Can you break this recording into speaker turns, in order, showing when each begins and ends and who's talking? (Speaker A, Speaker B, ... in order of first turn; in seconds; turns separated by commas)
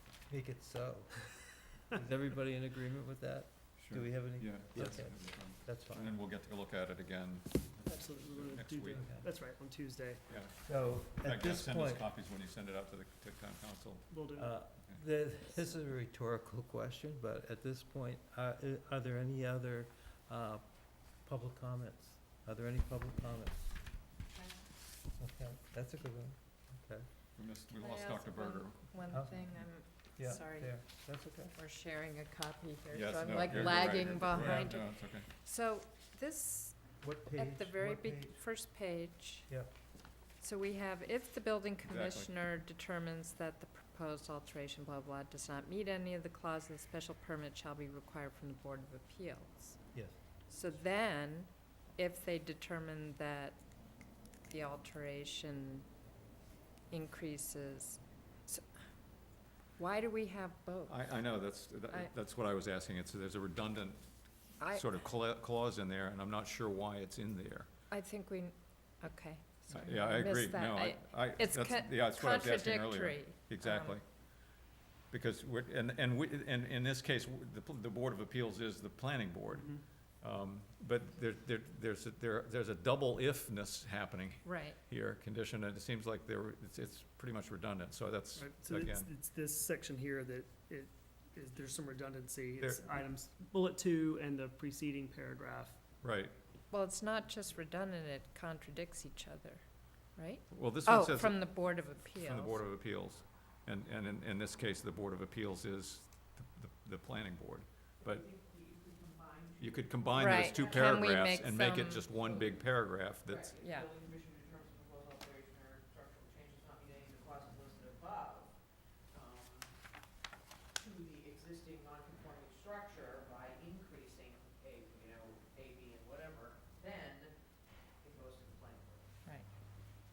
Speaker A: 0.3-6.2, Speaker B: 3.8-9.1, Speaker C: 7.8-10.2, Speaker A: 9.0-9.2, Speaker B: 10.3-10.6, Speaker A: 10.6-12.1, Speaker B: 11.1-14.2, Speaker C: 14.1-14.5, Speaker A: 14.3-23.7, Speaker A: 25.2-27.1, Speaker B: 27.4-29.0, Speaker D: 27.7-30.9, Speaker A: 29.1-29.5, Speaker A: 30.2-31.5, Speaker D: 31.5-39.5, Speaker B: 32.9-35.2, Speaker A: 33.5-33.8, Speaker A: 34.3-34.7, Speaker A: 37.0-38.4, Speaker D: 40.4-49.8, Speaker B: 41.8-42.3, Speaker D: 50.5-53.6, Speaker D: 54.5-55.9, Speaker D: 56.9-58.8, Speaker D: 59.8-61.2, Speaker B: 60.9-67.7, Speaker D: 64.6-64.9, Speaker D: 67.9-74.0, Speaker B: 69.7-74.0, Speaker B: 75.1-89.1, Speaker C: 79.5-79.8, Speaker D: 84.4-84.8, Speaker C: 88.3-95.8, Speaker B: 92.6-93.0, Speaker B: 96.0-96.3, Speaker D: 96.7-102.6, Speaker B: 100.5-108.3, Speaker B: 109.6-113.6, Speaker D: 110.1-112.1, Speaker D: 113.6-113.9, Speaker D: 129.2-129.5